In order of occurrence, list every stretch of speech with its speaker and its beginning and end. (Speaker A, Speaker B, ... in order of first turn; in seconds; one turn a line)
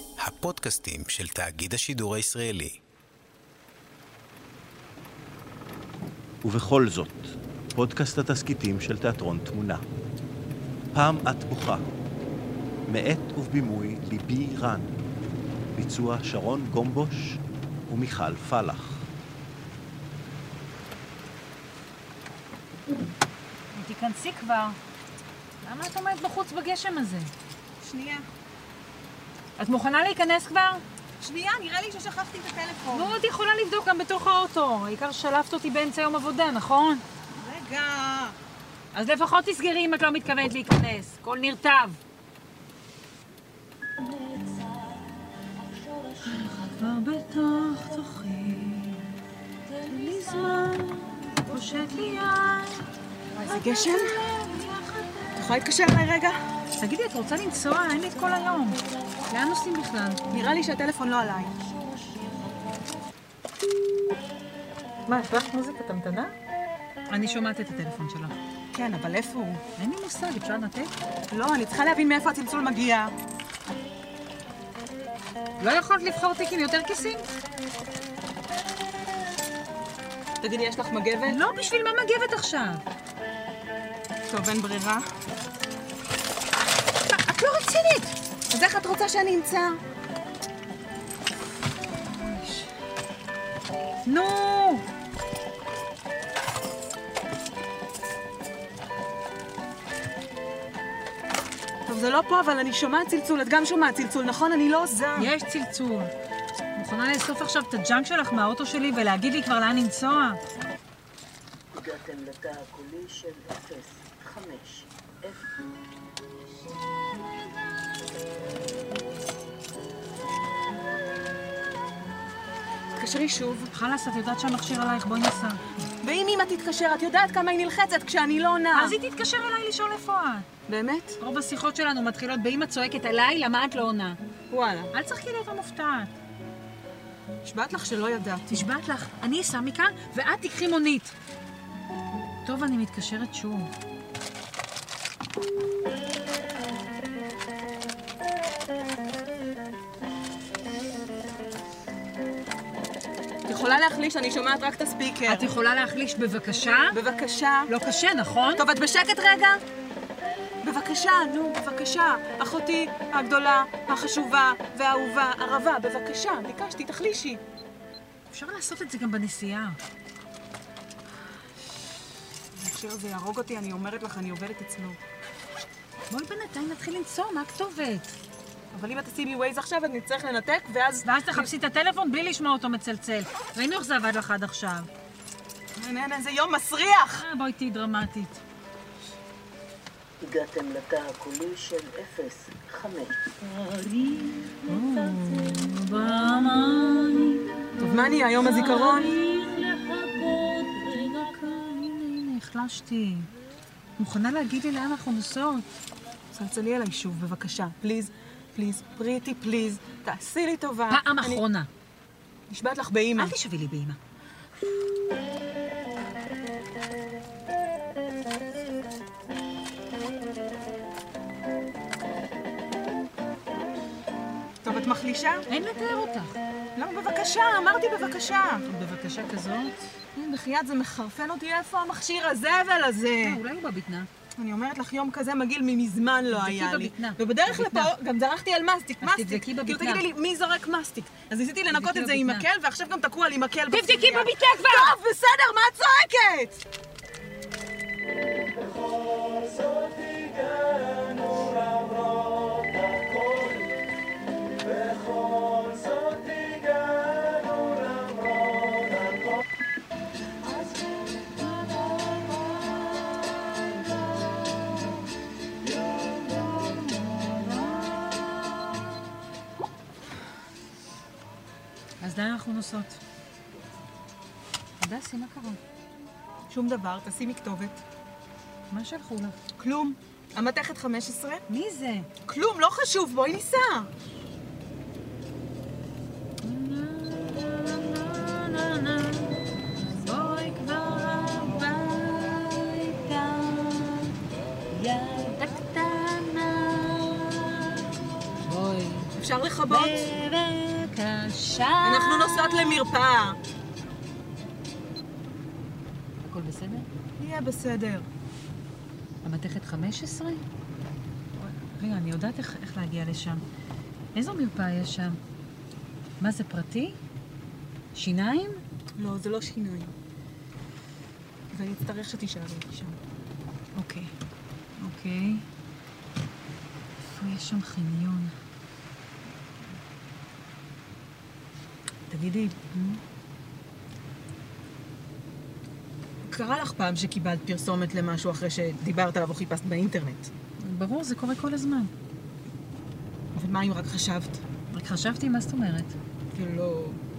Speaker A: 0.2-2.8
Speaker B: 6.4-9.8
Speaker B: 10.9-11.9
Speaker B: 12.9-14.9
Speaker B: 15.7-19.0
Speaker C: 23.7-24.8
Speaker C: 25.6-27.3
Speaker D: 27.8-28.2
Speaker C: 29.6-30.8
Speaker D: 31.2-33.1
Speaker C: 32.9-37.0
Speaker D: 37.4-38.3
Speaker C: 38.9-42.0
Speaker C: 46.2-49.1
Speaker C: 49.8-52.8
Speaker C: 53.4-55.5
Speaker D: 53.5-54.0
Speaker D: 55.4-56.4
Speaker C: 56.8-60.2
Speaker D: 60.3-61.5
Speaker C: 65.1-66.3
Speaker C: 67.1-68.4
Speaker D: 68.7-69.6
Speaker C: 69.8-70.9
Speaker D: 71.3-73.1
Speaker C: 75.6-77.3
Speaker D: 80.4-81.3
Speaker C: 81.2-82.8
Speaker D: 84.3-85.0
Speaker C: 87.1-88.1
Speaker D: 88.5-89.8
Speaker C: 92.0-92.7
Speaker C: 94.0-94.8
Speaker D: 101.9-105.3
Speaker C: 105.2-106.1
Speaker C: 106.8-110.4
Speaker E: 111.7-115.5
Speaker D: 123.0-123.7
Speaker C: 123.7-125.7
Speaker D: 126.0-128.9
Speaker C: 128.7-130.5
Speaker D: 130.7-131.1
Speaker C: 131.2-134.2
Speaker D: 134.5-134.9
Speaker C: 134.9-136.1
Speaker D: 137.4-138.4
Speaker C: 138.5-141.1
Speaker C: 142.4-143.7
Speaker B: 153.5-153.9
Speaker D: 153.6-155.5
Speaker C: 155.3-157.0
Speaker D: 156.9-157.6
Speaker C: 157.7-158.7
Speaker D: 158.6-159.6
Speaker D: 160.6-167.4
Speaker C: 168.3-169.8
Speaker D: 172.7-175.0
Speaker C: 176.1-178.1
Speaker D: 178.7-181.1
Speaker C: 181.0-184.9
Speaker D: 185.8-187.2
Speaker C: 187.1-188.4
Speaker E: 190.2-193.3
Speaker C: 194.6-197.4
Speaker D: 197.8-199.1
Speaker C: 198.3-203.3
Speaker C: 204.0-205.7
Speaker D: 206.3-211.4
Speaker C: 210.9-211.7
Speaker D: 212.5-213.3
Speaker C: 213.2-214.0
Speaker D: 224.6-225.4
Speaker C: 225.5-226.4
Speaker D: 226.8-228.6
Speaker C: 228.6-229.8
Speaker D: 230.2-233.4
Speaker C: 233.2-234.1
Speaker D: 234.4-246.6
Speaker C: 236.3-237.9
Speaker C: 239.0-240.1
Speaker C: 241.7-242.5
Speaker C: 243.7-244.9
Speaker C: 266.0-268.6
Speaker C: 272.0-273.0
Speaker C: 274.8-275.6
Speaker D: 276.5-277.8
Speaker C: 278.7-279.4
Speaker D: 279.6-281.4
Speaker C: 281.5-282.1
Speaker D: 282.3-283.9
Speaker C: 286.4-289.4
Speaker C: 290.0-294.2
Speaker C: 294.7-297.8
Speaker C: 298.4-299.1
Speaker D: 299.2-300.1
Speaker C: 299.7-302.9
Speaker D: 301.9-303.4
Speaker C: 306.2-306.9
Speaker D: 307.2-308.1
Speaker C: 309.2-310.4
Speaker C: 311.4-313.4
Speaker C: 314.1-315.2
Speaker C: 316.2-317.0
Speaker C: 317.9-318.6
Speaker D: 319.0-319.9
Speaker D: 321.5-322.9
Speaker C: 323.8-324.1
Speaker C: 324.8-325.5
Speaker C: 327.1-328.3
Speaker D: 332.1-332.5
Speaker C: 332.7-333.0
Speaker D: 336.4-340.3
Speaker C: 340.6-341.9
Speaker D: 343.4-344.4
Speaker C: 344.7-345.9
Speaker D: 346.4-347.0